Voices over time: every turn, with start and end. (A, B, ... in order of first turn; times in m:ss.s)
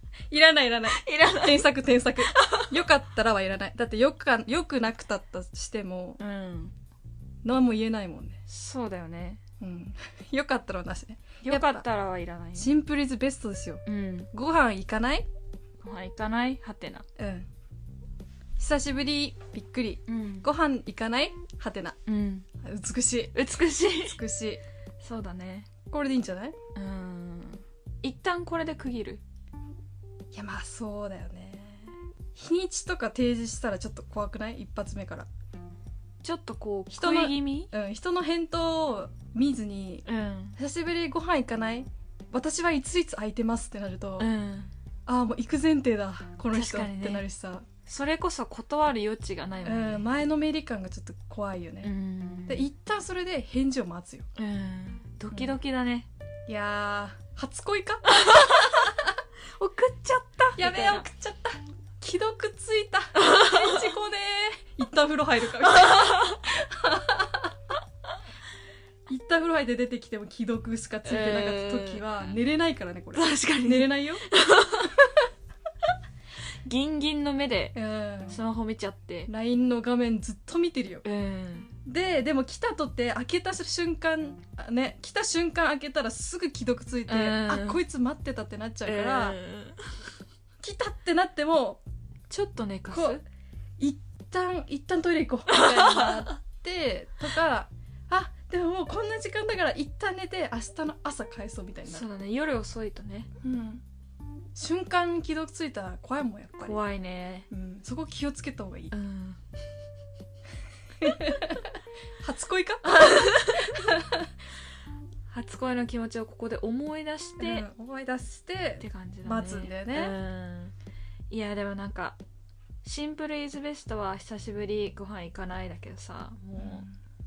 0:00.3-0:06.2 A
0:00.9-0:01.6 B
0:02.3-0:02.8 B
0:06.2-0:06.7 B
0:07.4-0:08.4 A
0:08.5-0:09.4 B
0:09.6-0:11.8 A
0:11.4-0:12.7 B
0:12.6-0:15.2 A
0:13.8-0:14.3 B
0:15.8-0:17.0 B
0:17.2-0:17.5 A
0:18.6-0:22.0 A
0:20.1-0:20.5 B
0:22.0-0:22.4 B
0:22.6-0:23.4 A
0:23.3-0:24.2 B
0:24.0-0:24.6 A
0:25.0-0:25.7 B
0:25.9-0:26.5 A
0:26.7-0:29.2 B
0:30.3-0:35.3 A
0:36.2-0:37.7 B
0:36.9-0:40.0 A
0:40.0-0:40.6 B
0:40.6-0:44.3 A
0:44.2-0:44.7 B
0:45.0-0:47.6 A
0:46.5-0:47.2 B
0:47.8-0:50.1 B
0:49.6-0:51.9 A
0:51.8-0:52.7 B
0:52.5-0:54.3 A
0:54.3-0:56.1 B
0:56.5-0:59.1 A
0:58.1-0:58.9 B
0:59.6-1:01.0 B
1:00.6-1:07.5 A
1:03.2-1:03.9 B
1:05.6-1:06.4 B
1:09.1-1:14.2 A
1:11.0-1:12.4 B
1:13.1-1:15.0 B
1:16.6-1:17.8 B
1:17.7-1:18.4 A
1:18.3-1:19.3 B
1:19.3-1:21.0 A
1:21.0-1:21.7 B
1:21.8-1:29.4 A
1:27.1-1:27.8 B
1:28.8-1:29.8 B
1:30.6-1:31.8 A
1:32.3-1:33.2 B
1:32.9-1:33.2 A
1:33.8-1:42.0 A
1:35.5-1:36.3 B
1:41.9-1:43.3 B
1:43.4-1:43.8 A
1:44.6-1:46.8 A
1:46.6-1:47.5 B
1:47.5-1:48.9 A
1:48.9-1:49.4 B
1:51.0-1:51.7 A
1:52.2-1:54.2 A
1:52.8-1:53.9 B
1:55.3-1:57.7 B
1:57.4-2:00.2 A
1:58.8-2:00.7 B
2:01.3-2:02.2 B
2:02.8-2:06.8 B
2:06.6-2:06.9 A